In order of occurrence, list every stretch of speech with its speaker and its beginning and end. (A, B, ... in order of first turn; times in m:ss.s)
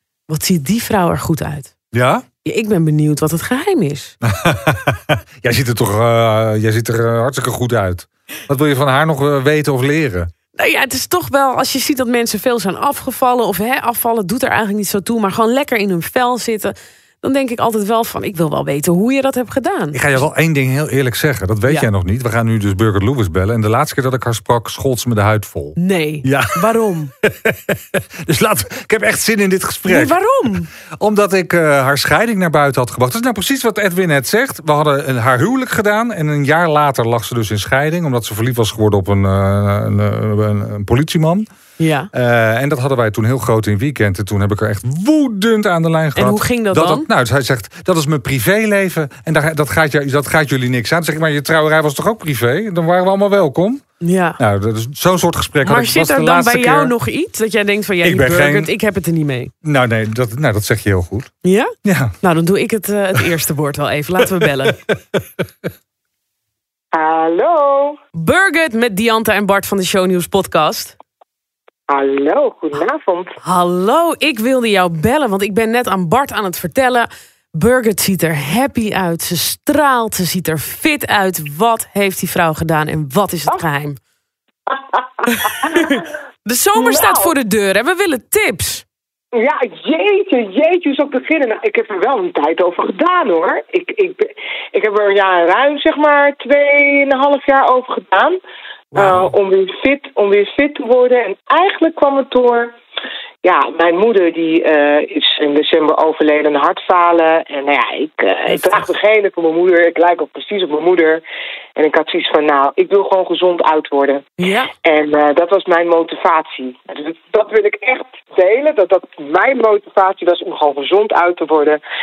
0:00.3-0:01.7 A
0:01.9-0:02.2 B
0:02.4-0:04.1 A
0:04.2-0:10.3 B
0:10.6-0:20.2 A
0:19.9-0:26.6 B
0:25.8-0:27.1 A
0:27.2-0:30.1 B
0:29.9-0:30.7 A
0:30.9-0:41.4 B
0:41.8-0:42.1 A
0:42.1-0:53.8 B
0:46.2-0:47.0 A
0:54.0-0:54.4 A
0:54.4-0:56.9 B
0:55.6-0:59.5 A
0:58.0-0:58.7 B
0:59.6-1:01.3 B
1:01.4-1:04.8 A
1:01.8-1:02.1 B
1:04.8-1:05.2 B
1:06.9-1:08.0 C
1:08.1-1:11.0 A
1:11.9-1:13.4 C
1:13.4-1:24.0 A
1:24.7-1:26.0 C
1:25.3-1:28.8 A
1:26.7-1:27.3 C
1:29.3-1:38.4 C
1:38.9-1:42.7 C
1:39.0-1:39.2 A
1:43.4-1:51.2 C
1:48.5-1:48.9 A
1:51.8-1:54.3 C
1:54.4-1:54.7 A
1:54.8-2:01.8 C